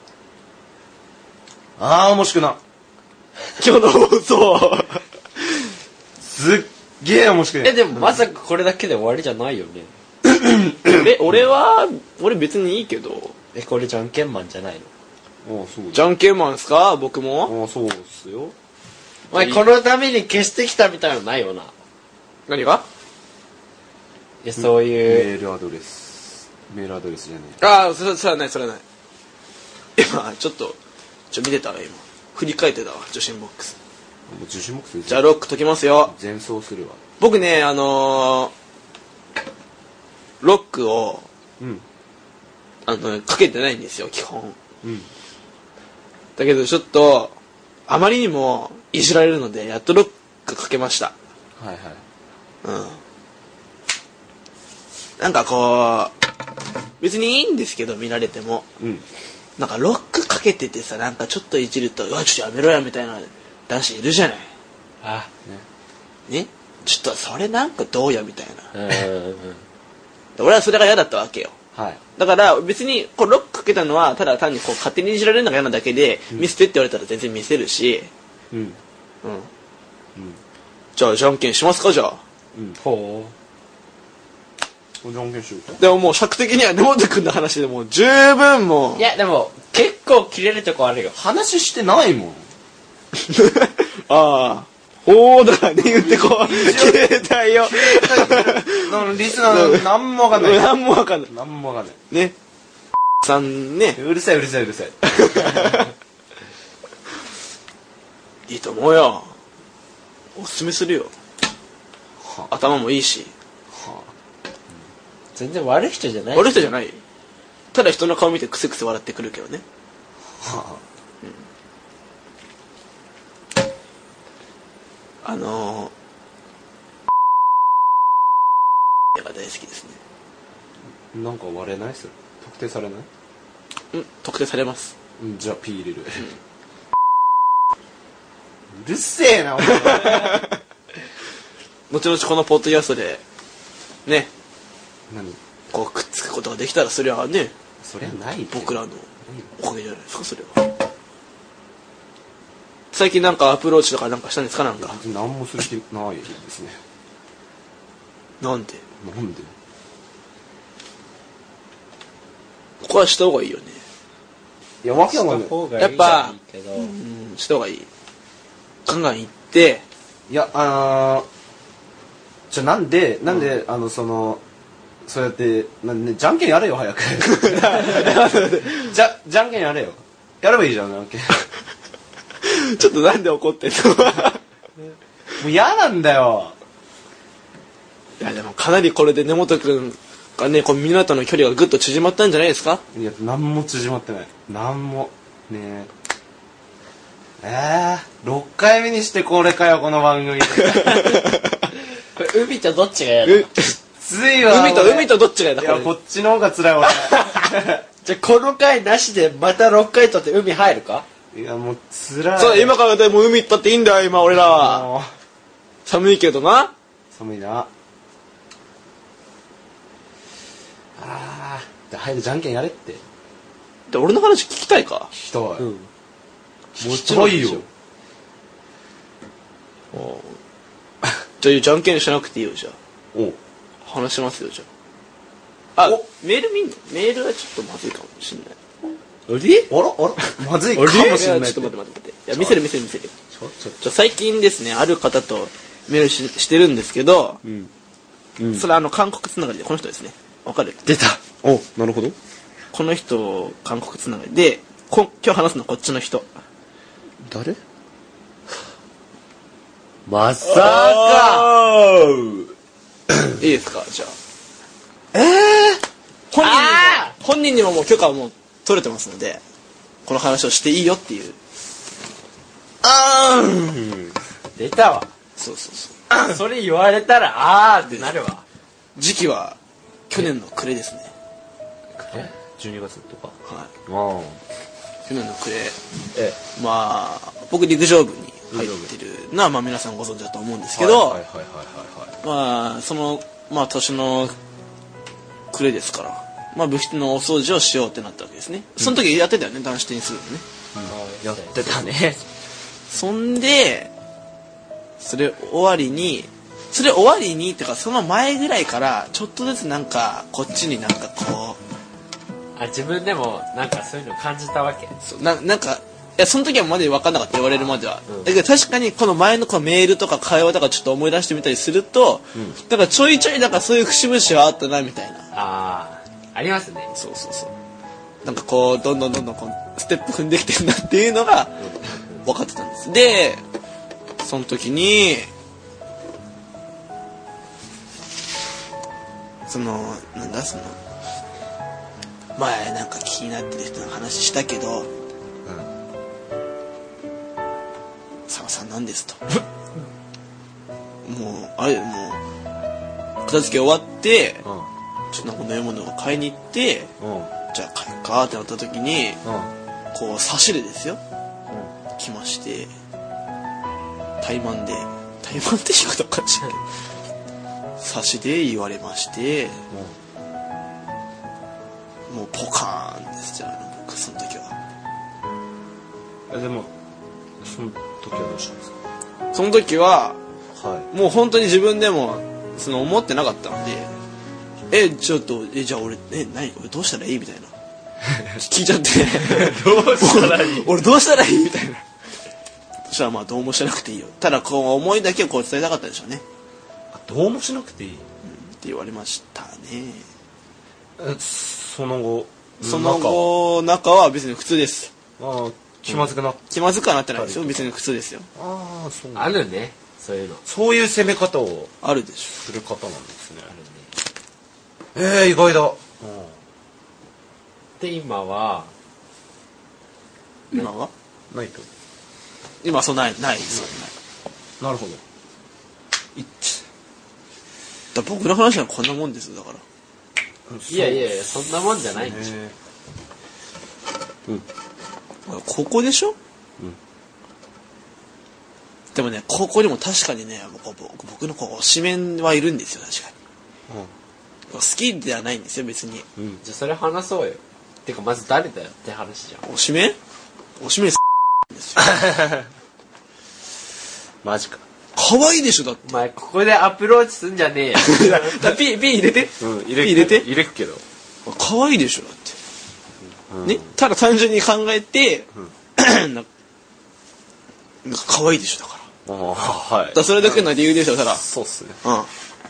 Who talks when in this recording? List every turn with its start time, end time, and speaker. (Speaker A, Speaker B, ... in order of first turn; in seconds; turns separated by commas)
Speaker A: 1.8-2.6, Speaker B: 3.6-5.0, Speaker A: 6.2-7.8, Speaker C: 7.6-9.9, Speaker A: 10.2-11.4, Speaker B: 10.8-13.3, Speaker C: 13.5-14.9, Speaker A: 15.4-16.1, Speaker B: 15.9-17.5, Speaker A: 17.4-18.5, Speaker C: 19.3-21.7, Speaker B: 22.5-22.8, Speaker C: 24.4-25.3, Speaker A: 24.6-27.6, Speaker B: 27.6-28.8, Speaker B: 29.9-30.8, Speaker B: 31.3-33.8, Speaker A: 34.3-35.3, Speaker B: 35.1-36.1, Speaker A: 36.0-37.0, Speaker B: 37.2-38.5, Speaker B: 40.4-41.3, Speaker B: 42.9-44.5, Speaker A: 44.8-45.1, Speaker B: 46.4-47.3, Speaker B: 47.9-51.1, Speaker A: 51.6-52.0, Speaker B: 52.6-53.0, Speaker B: 55.2-56.1, Speaker B: 57.0-58.7, Speaker B: 59.6-64.5, Speaker C: 65.0-65.3, Speaker B: 66.3-68.7, Speaker C: 68.7-69.6, Speaker B: 70.3-71.5, Speaker A: 71.8-72.0, Speaker B: 72.2-78.1, Speaker A: 78.5-78.8, Speaker B: 79.2-79.5, Speaker B: 81.0-82.2, Speaker C: 82.8-83.3, Speaker A: 85.0-85.8, Speaker B: 85.8-89.0, Speaker C: 89.0-91.2, Speaker A: 91.1-92.5, Speaker B: 93.2-101.3, Speaker A: 96.3-100.7, Speaker A: 101.3-102.0, Speaker B: 103.2-104.0, Speaker A: 104.0-105.8, Speaker B: 105.0-105.9, Speaker B: 108.5-109.3, Speaker B: 110.3-111.1, Speaker A: 112.2-112.5, Speaker B: 112.5-113.3, Speaker A: 113.7-114.1, Speaker C: 115.3-116.7, Speaker B: 116.3-117.0, Speaker B: 117.7-119.6, Speaker A: 120.4-120.8, Speaker B: 125.2-125.9, Speaker B: 129.1-130.0, Speaker A: 131.1-133.1, Speaker B: 133.9-134.9, Speaker A: 135.2-136.3, Speaker A: 138.7-140.5, Speaker B: 139.6-140.5, Speaker B: 141.9-143.2, Speaker A: 145.1-145.4, Speaker B: 145.7-147.5, Speaker A: 147.8-149.5, Speaker B: 148.5-149.1, Speaker B: 149.6-150.7, Speaker B: 152.9-155.0, Speaker A: 154.8-156.8, Speaker B: 158.4-158.8, Speaker A: 159.0-159.5, Speaker B: 162.8-163.8, Speaker A: 164.8-165.5, Speaker C: 165.0-166.9, Speaker B: 165.8-167.9, Speaker B: 168.8-169.8, Speaker A: 170.3-171.2, Speaker A: 172.5-174.4, Speaker A: 175.0-181.4, Speaker B: 177.3-178.9, Speaker B: 182.4-184.4, Speaker A: 185.4-186.6, Speaker B: 188.2-192.8, Speaker A: 192.9-195.9, Speaker A: 197.4-201.2, Speaker B: 200.8-201.1, Speaker C: 202.2-203.5, Speaker B: 203.2-203.7, Speaker A: 204.0-207.8, Speaker B: 204.4-205.9, Speaker C: 208.0-211.1, Speaker A: 211.3-212.7, Speaker B: 212.4-214.9, Speaker A: 214.3-215.1, Speaker B: 215.8-216.7, Speaker A: 217.1-217.7, Speaker A: 221.0-223.0, Speaker B: 223.9-225.1, Speaker A: 225.1-225.7, Speaker C: 225.6-225.9, Speaker A: 226.8-227.7, Speaker C: 226.8-227.6, Speaker B: 229.9-230.3, Speaker B: 231.4-232.8, Speaker B: 233.8-234.7, Speaker B: 235.8-238.5, Speaker C: 239.3-239.7, Speaker A: 239.7-241.7, Speaker B: 240.7-243.1, Speaker C: 240.8-241.2, Speaker A: 243.3-243.8, Speaker B: 243.8-247.4, Speaker A: 247.4-247.7, Speaker A: 248.4-248.7, Speaker B: 248.5-250.8, Speaker C: 250.9-251.2, Speaker A: 251.2-252.2, Speaker B: 252.7-256.3, Speaker A: 257.2-257.6, Speaker C: 260.1-261.5, Speaker A: 260.4-262.5, Speaker B: 263.4-264.1, Speaker A: 265.1-265.8, Speaker B: 266.3-269.4, Speaker C: 266.4-267.1, Speaker B: 270.1-271.4, Speaker A: 272.8-274.1, Speaker C: 274.6-275.1, Speaker B: 275.4-275.9, Speaker A: 276.1-276.4, Speaker C: 276.1-278.4, Speaker B: 278.9-279.6, Speaker B: 280.1-281.1, Speaker A: 281.9-284.4, Speaker B: 285.1-285.8, Speaker A: 286.1-286.4, Speaker B: 286.5-291.2, Speaker A: 288.5-288.9, Speaker A: 290.7-292.2, Speaker B: 292.2-294.3, Speaker B: 295.5-300.4, Speaker A: 300.7-302.2, Speaker C: 300.9-301.8, Speaker B: 302.9-303.9, Speaker B: 305.0-311.6, Speaker C: 312.6-314.9, Speaker B: 315.0-325.2, Speaker C: 325.3-326.9, Speaker B: 326.9-327.5, Speaker B: 328.2-331.6, Speaker A: 331.6-332.0, Speaker B: 332.2-333.4, Speaker B: 334.2-335.3, Speaker B: 339.5-340.8, Speaker B: 342.4-344.9, Speaker A: 345.4-345.7, Speaker B: 348.3-349.4, Speaker B: 351.0-352.2, Speaker B: 353.2-354.4, Speaker A: 354.4-354.7, Speaker B: 355.1-356.9, Speaker A: 357.0-357.3, Speaker B: 357.5-359.2, Speaker A: 359.2-359.5, Speaker B: 359.9-361.0, Speaker B: 362.0-362.7, Speaker B: 364.2-366.7, Speaker B: 367.8-369.6, Speaker A: 369.7-369.9, Speaker B: 372.1-374.5, Speaker A: 376.3-376.7, Speaker A: 377.4-378.7, Speaker B: 379.3-380.2, Speaker A: 380.5-380.9, Speaker B: 380.9-383.9, Speaker B: 384.7-387.5, Speaker A: 388.0-388.4, Speaker B: 388.4-391.8, Speaker A: 389.1-390.7, Speaker B: 392.9-396.2, Speaker A: 396.9-398.1, Speaker B: 398.2-400.0, Speaker A: 401.0-403.3, Speaker B: 402.6-404.9, Speaker A: 405.2-406.4, Speaker B: 406.5-408.3, Speaker A: 407.1-407.7, Speaker A: 408.3-409.4, Speaker C: 409.1-410.4, Speaker A: 410.4-411.7, Speaker B: 411.8-412.4, Speaker A: 412.3-413.5, Speaker C: 413.5-413.9, Speaker A: 414.9-416.3, Speaker C: 417.8-418.7, Speaker B: 420.5-420.9, Speaker A: 421.3-421.7, Speaker B: 422.6-423.9, Speaker A: 424.6-425.0, Speaker A: 426.1-426.6, Speaker B: 427.9-429.6, Speaker A: 430.5-431.1, Speaker C: 430.7-432.3, Speaker A: 431.9-432.5, Speaker B: 435.3-436.1, Speaker B: 438.9-443.1, Speaker B: 444.5-446.1, Speaker C: 446.4-449.4, Speaker B: 449.4-450.0, Speaker B: 450.6-451.9, Speaker A: 451.8-452.4, Speaker A: 454.2-454.6, Speaker B: 454.9-455.9, Speaker C: 455.8-458.4, Speaker B: 457.8-460.3, Speaker A: 459.4-460.8, Speaker B: 461.2-462.4, Speaker A: 463.3-463.7, Speaker B: 463.4-466.2, Speaker B: 467.8-468.9, Speaker A: 469.1-471.8, Speaker B: 469.9-471.2, Speaker B: 471.8-472.1